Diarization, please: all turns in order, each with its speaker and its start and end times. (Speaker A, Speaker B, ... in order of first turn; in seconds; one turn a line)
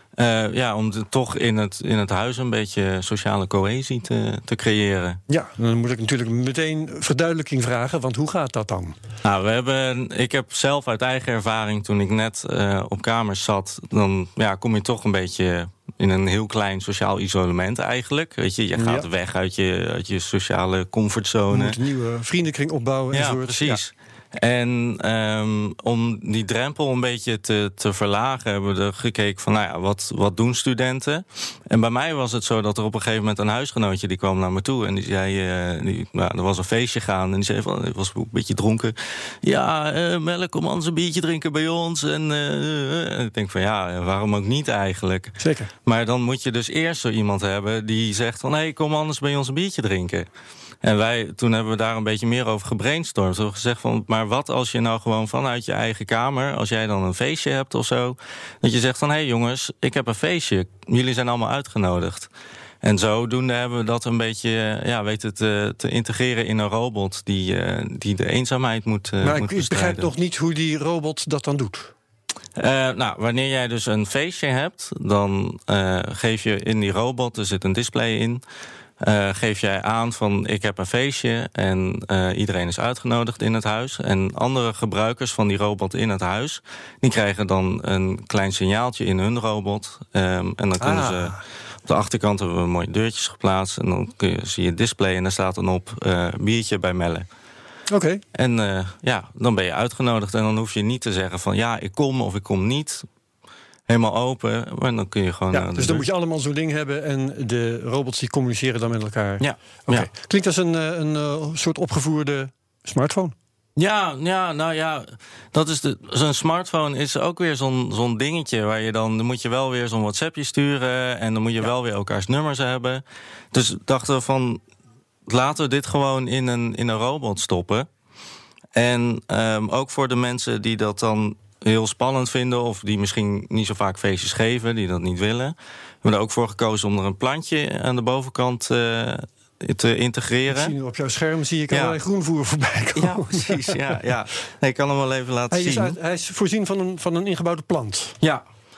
Speaker A: 0.2-5.2
Speaker B: 5.3-8.9
Speaker A: 9.2-21.8
Speaker B: 18.8-19.1
Speaker B: 21.5-23.8
Speaker A: 23.1-50.3
Speaker B: 45.4-45.7
Speaker A: 50.8-62.3
Speaker A: 62.8-70.1
Speaker B: 69.2-71.9
Speaker A: 72.6-78.4
Speaker A: 79.0-91.3
Speaker B: 90.8-91.4
Speaker A: 91.9-97.3
Speaker B: 97.9-98.2
Speaker A: 98.3-103.1
Speaker A: 103.9-106.0
Speaker B: 105.5-113.3
Speaker A: 109.4-110.1
Speaker A: 113.8-124.6
Speaker A: 125.3-127.9
Speaker A: 128.8-140.7
Speaker B: 140.5-143.8
Speaker A: 141.7-142.0
Speaker A: 143.0-146.0
Speaker B: 145.5-148.2